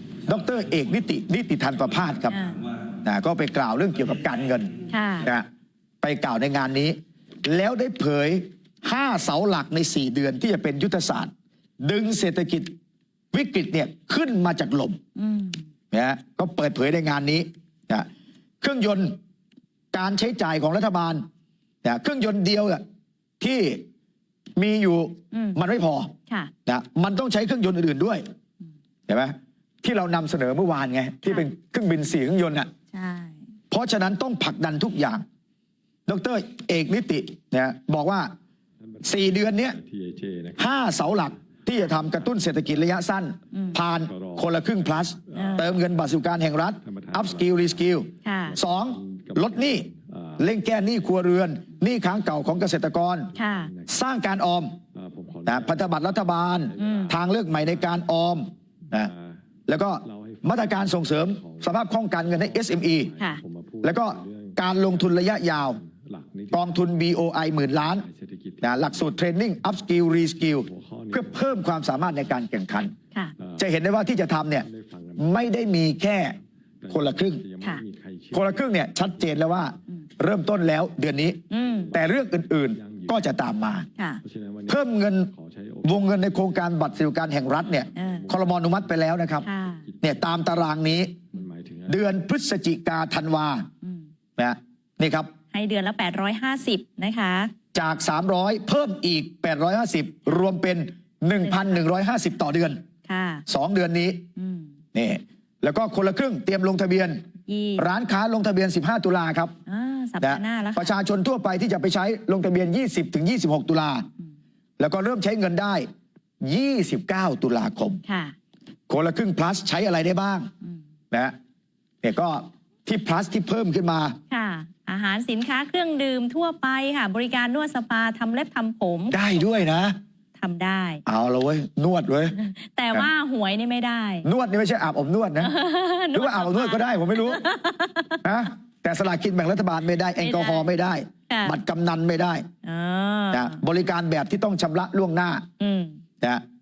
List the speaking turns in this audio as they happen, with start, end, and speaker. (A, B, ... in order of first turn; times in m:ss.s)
0:00.3-0:02.4 A
0:02.3-0:02.6 B
0:03.0-0:05.5 A
0:04.9-0:05.3 B
0:06.0-0:12.7 A
0:13.3-0:15.0 A
0:15.2-0:15.6 B
0:15.9-0:18.1 A
0:18.6-0:19.2 A
0:19.9-0:21.2 A
0:21.8-0:22.8 A
0:23.4-0:23.8 A
0:24.6-0:26.1 A
0:25.3-0:25.6 B
0:26.7-0:28.2 A
0:29.1-0:32.7 A
0:32.9-0:33.4 B
0:33.7-0:35.2 A
0:36.1-0:38.3 A
0:38.9-0:41.2 C
0:39.0-0:39.8 A
0:40.6-0:53.3 A
0:41.9-0:43.0 C
0:43.5-0:43.8 B
0:43.9-0:46.1 C
0:45.3-0:45.7 B
0:46.8-0:48.0 C
0:48.2-0:48.6 B
0:48.5-0:51.1 C
0:53.3-0:54.0 C
0:53.4-0:53.7 B
0:53.9-0:54.8 A
0:54.9-0:55.9 C
0:55.5-0:59.1 A
0:56.5-0:58.0 C
0:56.8-0:57.2 B
0:58.9-0:59.4 C
0:59.7-1:03.1 A
1:00.0-1:06.9 C
1:03.8-1:05.8 A
1:06.5-1:08.0 A
1:07.6-1:09.1 C
1:08.6-1:12.9 A
1:10.6-1:11.8 C
1:13.4-1:13.7 C
1:13.6-1:14.7 A
1:14.6-1:15.3 C
1:15.2-1:16.4 A
1:16.8-1:19.6 C
1:16.9-1:17.4 A
1:18.3-1:21.4 A
1:21.5-1:21.9 B
1:21.7-1:23.3 C
1:21.9-1:23.9 A
1:24.2-1:29.0 C
1:24.7-1:25.3 A
1:25.8-1:29.5 A
1:28.0-1:28.3 B
1:29.4-1:29.8 B
1:29.8-1:30.6 C
1:30.0-1:31.2 A
1:31.3-1:32.0 C
1:31.9-1:33.7 A
1:34.4-1:35.3 A
1:35.5-1:37.5 B
1:37.7-1:42.8 A
1:41.4-1:41.8 B
1:43.1-1:43.4 B
1:43.5-1:44.3 A
1:44.4-1:44.7 B
1:44.9-1:47.2 A
1:47.5-1:47.9 B
1:47.8-1:49.6 A
1:49.7-1:51.0 B
1:50.2-1:54.1 A
1:54.8-1:55.9 A
1:56.4-1:58.0 A
1:58.0-1:58.3 B
1:58.9-2:00.5 A
2:02.0-2:04.2 A
2:04.3-2:09.7 B
2:09.1-2:10.0 A
2:10.4-2:11.0 B
2:11.1-2:12.4 A
2:12.3-2:14.3 B
2:14.2-2:15.5 A
2:15.4-2:18.2 B
2:16.1-2:17.4 A
2:18.2-2:22.4 A
2:20.2-2:20.7 B
2:21.3-2:21.6 B
2:22.6-2:23.6 B
2:23.3-2:25.5 A
2:25.6-2:26.0 B